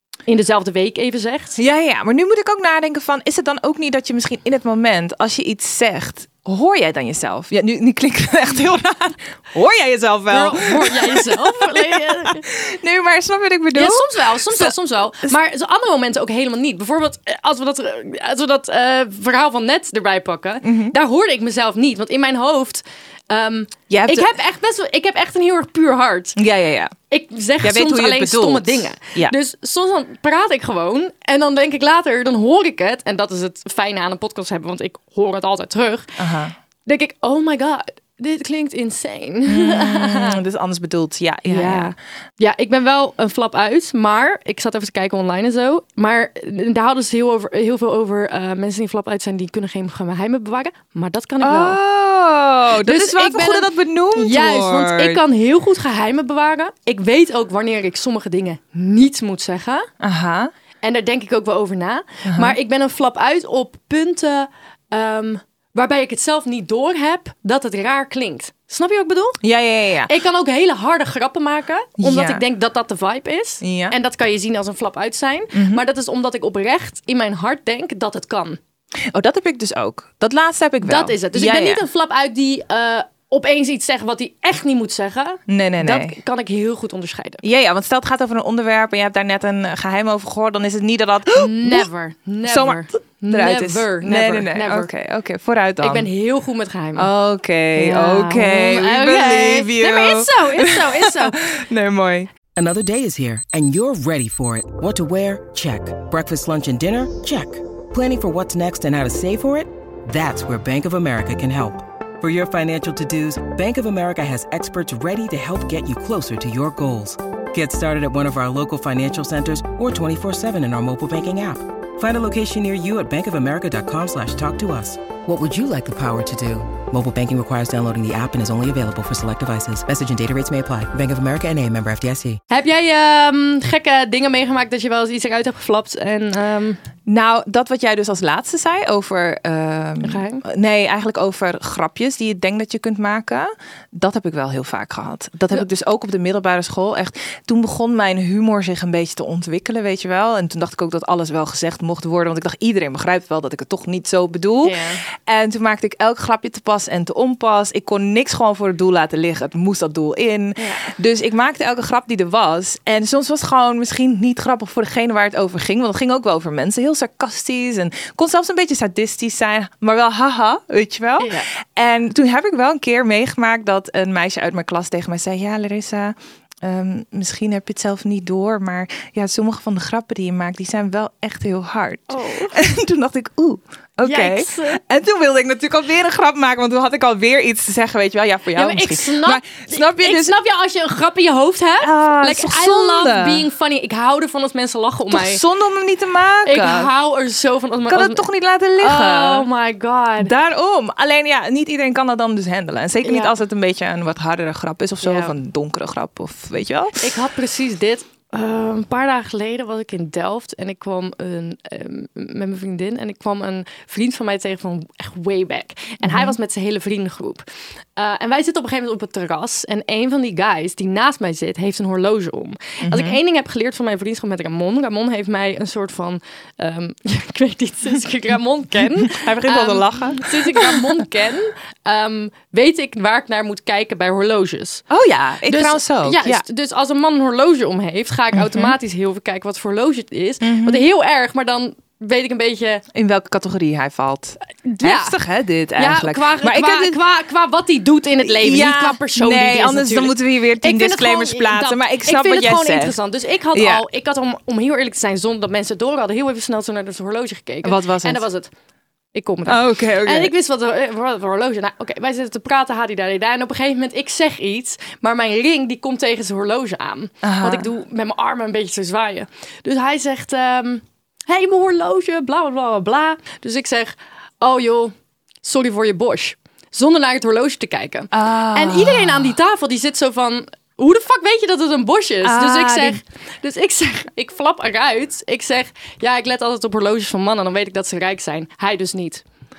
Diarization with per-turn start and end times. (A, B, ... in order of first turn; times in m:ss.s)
0:00.3-0:01.6 A
0:01.6-0:15.3 B
0:10.3-0:12.4 A
0:13.8-0:26.4 A
0:20.6-0:21.0 B
0:23.9-0:24.3 B
0:26.4-0:27.0 B
0:27.1-0:36.2 A
0:27.6-0:29.3 B
0:36.2-0:36.5 B
0:36.9-0:40.4 A
0:39.5-0:41.9 B
0:41.4-0:51.8 A
0:51.4-0:55.2 B
0:52.8-0:59.9 A
1:00.0-1:00.5 B
1:00.8-1:09.4 A
1:02.3-1:02.6 B
1:09.4-1:10.1 B
1:10.1-1:18.6 A
1:12.0-1:12.4 B
1:13.6-1:14.0 B
1:15.5-1:15.8 B
1:19.1-1:21.8 B
1:20.8-1:27.4 A
1:25.5-1:26.2 B
1:27.4-1:31.9 B
1:31.4-1:34.9 A
1:32.5-1:36.1 B
1:35.8-1:37.1 A
1:37.0-1:42.3 B
1:37.8-1:41.4 A
1:42.6-2:12.4 C
2:12.5-2:16.8 A
2:17.1-3:10.4 B
2:20.0-2:20.4 A
2:34.6-2:35.0 A
2:40.6-2:40.9 A
2:51.2-2:51.5 A
3:02.1-3:02.6 A
3:04.0-3:04.8 A
3:08.6-3:15.4 A
3:11.8-3:13.5 B
3:15.1-3:16.9 B
3:16.4-3:18.3 A
3:17.9-3:19.5 B
3:18.8-3:20.3 A
3:20.2-3:27.2 B
3:23.0-3:23.3 A
3:25.0-3:25.3 A
3:27.0-3:37.4 A
3:36.0-3:36.4 B
3:38.0-3:54.8 A
3:42.8-3:43.2 B
3:49.0-3:51.0 B
3:54.9-3:56.4 B
3:55.5-4:02.8 A
3:58.3-3:58.8 B
4:00.4-4:00.9 B
4:02.9-4:07.0 B
4:04.6-4:05.2 A
4:05.8-4:18.5 A
4:08.2-4:13.0 B
4:13.5-4:13.8 B
4:17.6-4:18.2 B
4:19.1-4:49.2 A
4:19.5-4:20.3 B
4:27.2-4:27.7 B
4:38.1-4:39.4 B
4:42.2-4:43.0 B